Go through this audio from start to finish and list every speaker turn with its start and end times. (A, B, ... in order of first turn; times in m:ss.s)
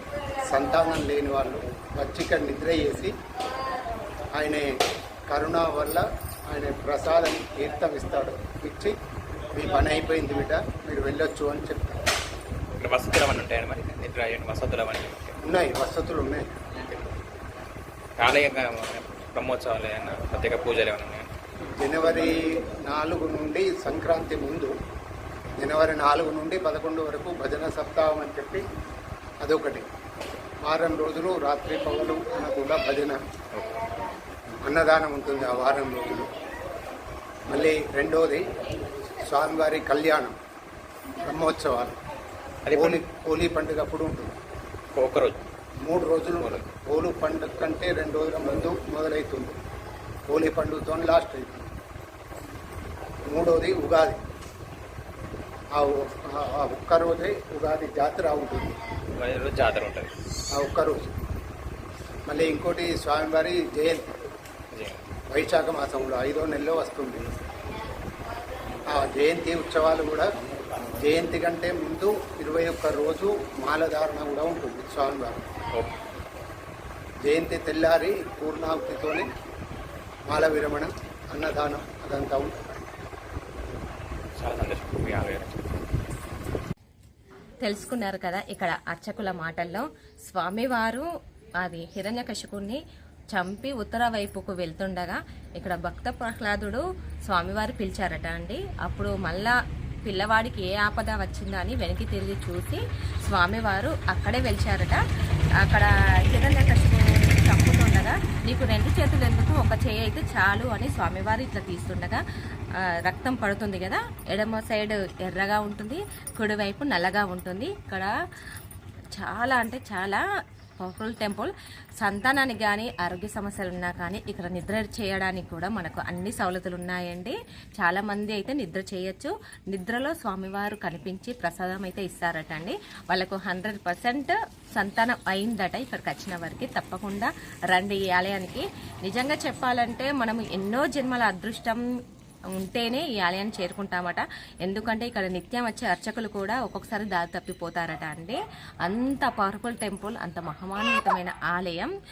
0:00.4-0:03.1 A
0:04.3-0:04.7 A
0:05.3-0:09.0 A
0:09.5-0:12.0 A
0:12.8-0:15.4 B
0:15.4-0:16.5 A
0:16.8-0:17.1 B
0:18.2-0:21.3 B
0:21.8-0:24.7 A
0:25.6-0:28.6 A
0:29.4-0:29.9 A
0:30.6-0:33.2 A
0:34.6-0:36.3 A
0:37.5-0:38.5 A
0:39.2-0:40.4 A
0:41.2-0:42.0 A
0:42.7-0:43.0 B
0:42.7-0:44.4 A
0:45.0-0:45.4 B
0:45.8-0:49.6 A
0:46.4-0:46.6 B
0:50.3-0:51.7 A
0:53.3-0:54.2 A
0:55.8-0:58.7 A
0:59.2-1:00.1 B
1:00.5-1:01.1 A
1:02.3-1:04.2 A
1:04.7-1:05.0 B
1:05.3-1:07.3 A
1:08.9-1:10.3 A
1:11.0-1:15.4 A
1:17.2-1:19.3 A
1:20.3-1:22.8 A
1:24.4-1:25.7 B
1:27.6-1:31.1 C
1:31.6-1:32.8 C
1:33.3-1:45.0 C
1:45.6-1:52.2 C
1:53.0-1:58.1 C
1:59.2-2:00.2 C
2:00.8-2:21.8 C
2:22.5-2:31.9 C